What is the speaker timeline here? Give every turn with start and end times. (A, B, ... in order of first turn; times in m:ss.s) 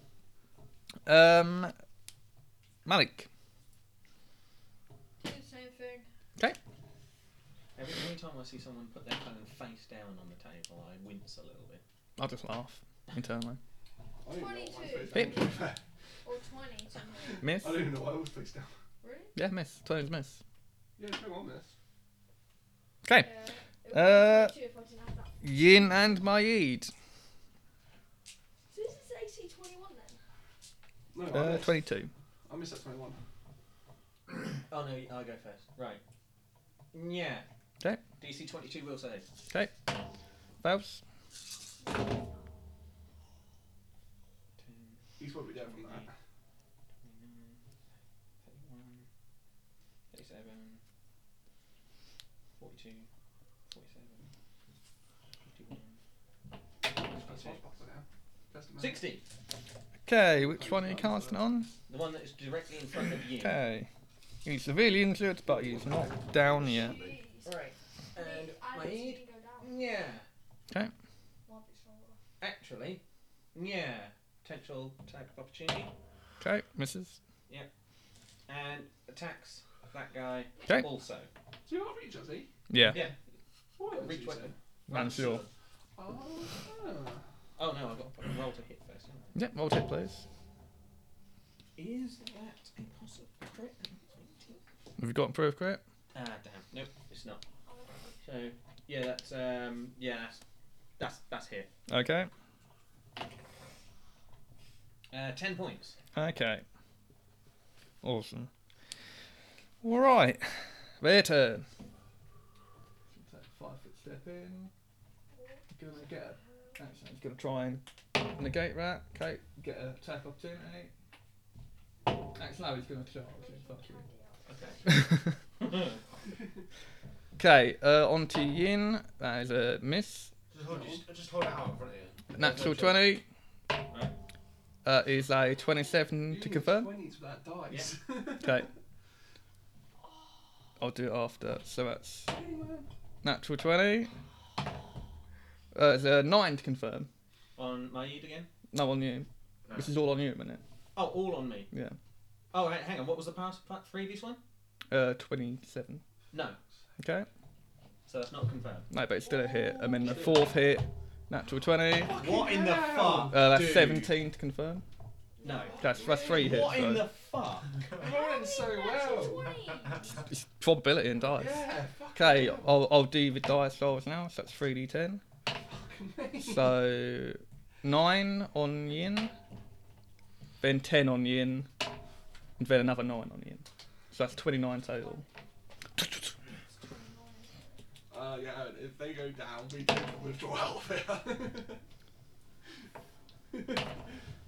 0:01.0-0:01.7 A
0:02.8-0:03.3 A
0:05.2-0:06.1 B
0:07.8-0:11.8 C
0:12.2-0:13.6 A
0:14.2-0:15.8 D
0:14.3-0:15.6 B
0:16.2-0:17.4 B
0:17.2-0:18.7 D
0:17.4-0:17.8 A
0:19.0-0:19.3 B
0:19.4-0:20.4 A
0:21.0-0:21.7 D
0:23.2-0:26.3 B
0:23.9-0:24.5 A
0:25.4-0:26.9 A
0:28.7-0:30.2 B
0:31.1-0:31.8 D
0:31.3-0:32.1 A
0:32.5-0:33.2 D
0:34.7-0:36.0 C
0:36.9-0:37.4 C
0:38.2-0:39.3 C
0:40.6-0:41.0 A
0:44.6-0:45.0 C
0:45.2-0:46.1 D
0:45.6-0:46.1 C
0:47.0-0:47.6 C
0:48.4-0:49.1 C
0:50.1-0:50.8 C
0:52.6-0:53.1 C
0:53.7-0:54.3 C
0:55.4-0:56.0 C
0:56.9-0:59.0 D
0:57.0-0:57.6 C
0:58.8-0:59.2 C
1:00.0-1:01.7 A
1:00.4-1:01.3 D
1:01.9-1:03.6 C
1:03.4-1:03.9 A
1:04.4-1:07.0 A
1:05.5-1:06.9 D
1:06.6-1:07.5 B
1:07.4-1:10.2 C
1:08.1-1:09.8 B
1:11.4-1:12.2 B
1:12.4-1:13.0 C
1:13.5-1:15.9 C
1:16.4-1:17.2 A
1:18.5-1:21.3 C
1:21.6-1:22.5 D
1:22.7-1:23.1 A
1:22.8-1:23.2 C
1:23.8-1:24.5 D
1:23.8-1:25.5 C
1:24.9-1:25.4 A
1:26.0-1:27.2 D
1:27.6-1:29.4 C
1:29.3-1:30.2 A
1:31.8-1:34.6 C
1:35.0-1:35.8 A
1:36.1-1:37.4 C
1:37.6-1:38.2 B
1:38.2-1:40.4 C
1:41.0-1:41.7 C
1:41.9-1:42.3 A
1:45.1-1:46.0 C
1:46.1-1:46.6 A
1:48.0-1:48.5 A
1:49.8-1:51.6 A
1:53.1-1:54.7 A
1:55.3-1:56.8 B
1:55.7-2:00.9 A
2:02.3-2:04.0 A
2:03.2-2:05.0 B
2:04.4-2:04.9 C
2:04.9-2:05.3 A
2:05.6-2:06.0 C
2:07.4-2:10.3 A
2:10.5-2:13.1 E
2:10.6-2:11.0 D
2:12.3-2:13.2 A
2:14.8-2:16.9 A
2:16.3-2:18.7 D
2:18.4-2:18.7 A
2:20.8-2:22.3 A
2:22.3-2:22.9 D
2:23.2-2:24.1 A
2:25.7-2:27.1 A
2:27.6-2:28.5 C
2:28.7-2:30.6 A
2:30.9-2:31.7 C
2:31.7-2:32.0 A
2:32.5-2:34.4 C
2:34.9-2:36.0 A
2:36.3-2:36.6 C
2:37.0-2:37.3 A
2:38.0-2:38.9 C
2:38.9-2:42.2 A
2:39.2-2:40.4 B
2:42.0-2:43.3 D
2:42.1-2:44.1 C
2:43.2-2:44.8 A
2:45.4-2:46.2 B
2:45.4-2:47.7 C
2:45.5-2:46.7 D
2:45.8-2:47.1 A
2:47.8-2:48.1 E
2:48.0-2:49.4 D
2:48.0-2:50.2 B
2:49.2-2:50.2 E
2:50.3-2:55.2 A
2:51.3-2:52.8 D
2:55.7-2:56.8 D
2:56.4-2:59.3 A
3:00.6-3:01.7 A
3:02.6-3:05.2 A
3:05.0-3:05.2 B
3:06.6-3:07.8 B
3:08.1-3:11.8 D
3:13.5-3:13.8 D